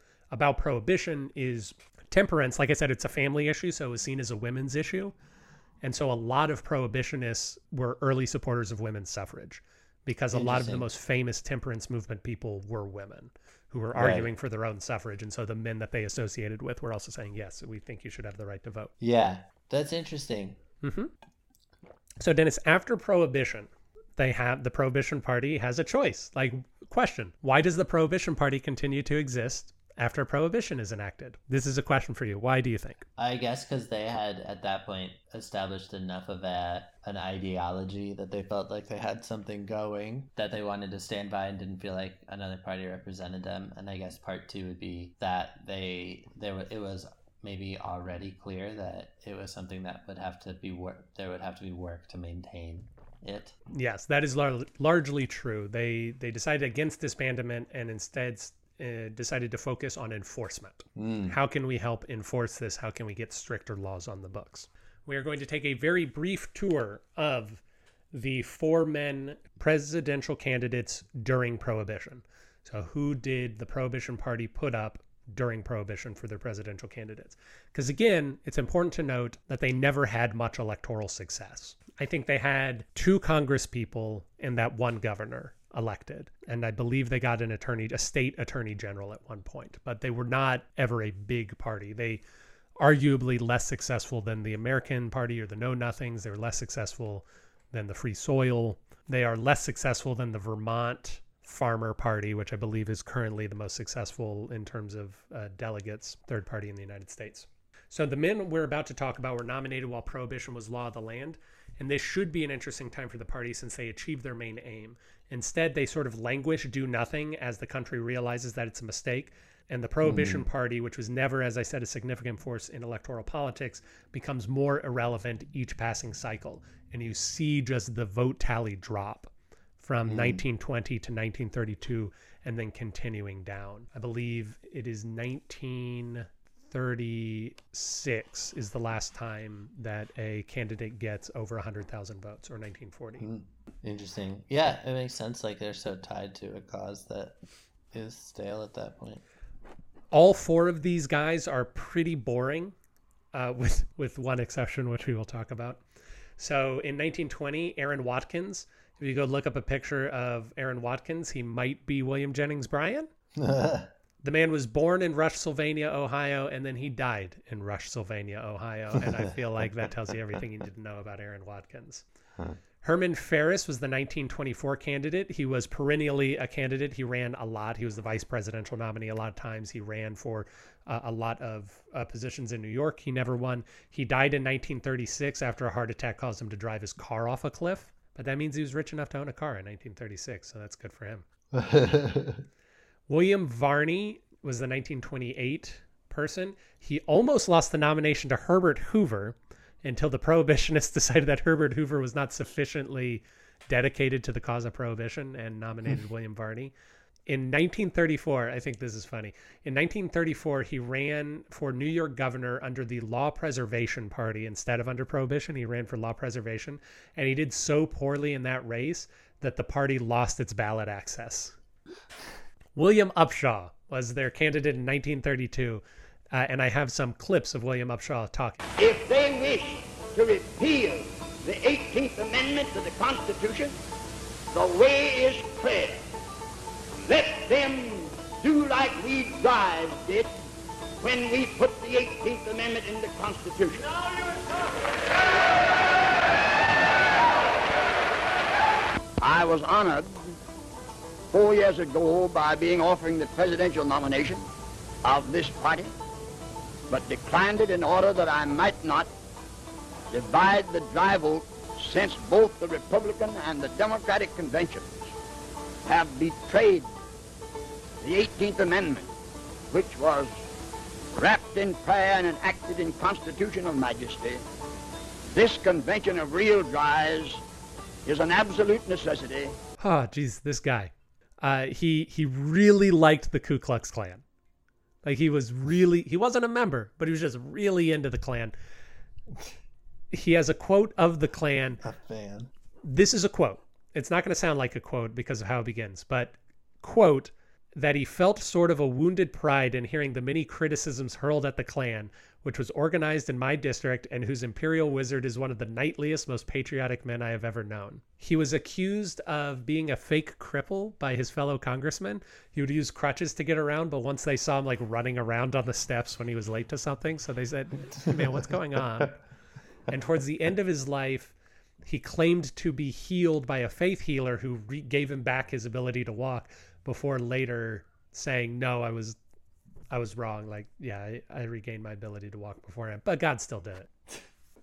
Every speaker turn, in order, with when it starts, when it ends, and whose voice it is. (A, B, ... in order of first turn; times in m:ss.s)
0:00.3-0:05.2 A
0:05.8-0:18.9 A
0:10.3-0:10.9 B
0:13.9-0:14.3 B
0:19.0-0:20.6 B
0:20.8-0:21.1 A
0:22.2-0:33.0 A
0:33.2-0:53.6 B
0:53.7-1:07.6 A
1:01.0-1:01.4 B
1:08.1-1:32.2 A
1:32.8-2:23.3 A
2:00.0-2:00.5 B
2:10.1-2:10.4 B
2:23.2-2:27.4 B
2:27.9-2:29.2 B
2:30.1-2:32.7 A
2:33.3-2:35.8 A
2:36.4-2:43.1 A
2:43.4-2:43.9 B
2:44.2-2:52.0 A
2:52.8-3:11.2 A
3:11.5-3:12.4 B
3:13.1-3:26.7 A
3:27.3-3:41.5 A
3:42.8-3:48.6 A
3:48.8-3:53.8 C
3:54.5-3:56.0 C
3:57.1-4:00.4 C
4:01.0-4:04.0 C
4:09.2-4:10.4 C
4:11.3-4:14.5 C
4:15.0-4:15.9 C
4:16.9-4:19.1 C
4:20.1-4:25.1 C
4:25.9-4:26.9 C
4:28.0-4:29.1 C
4:29.7-4:30.4 C
4:31.1-4:34.4 C
4:35.3-4:37.4 C
4:38.0-4:39.6 C
4:39.8-4:44.2 A
4:45.0-4:48.6 A
4:50.1-4:51.8 A
4:51.8-4:52.5 B
4:52.8-5:19.2 A
5:19.9-5:29.2 A
5:29.9-5:33.9 A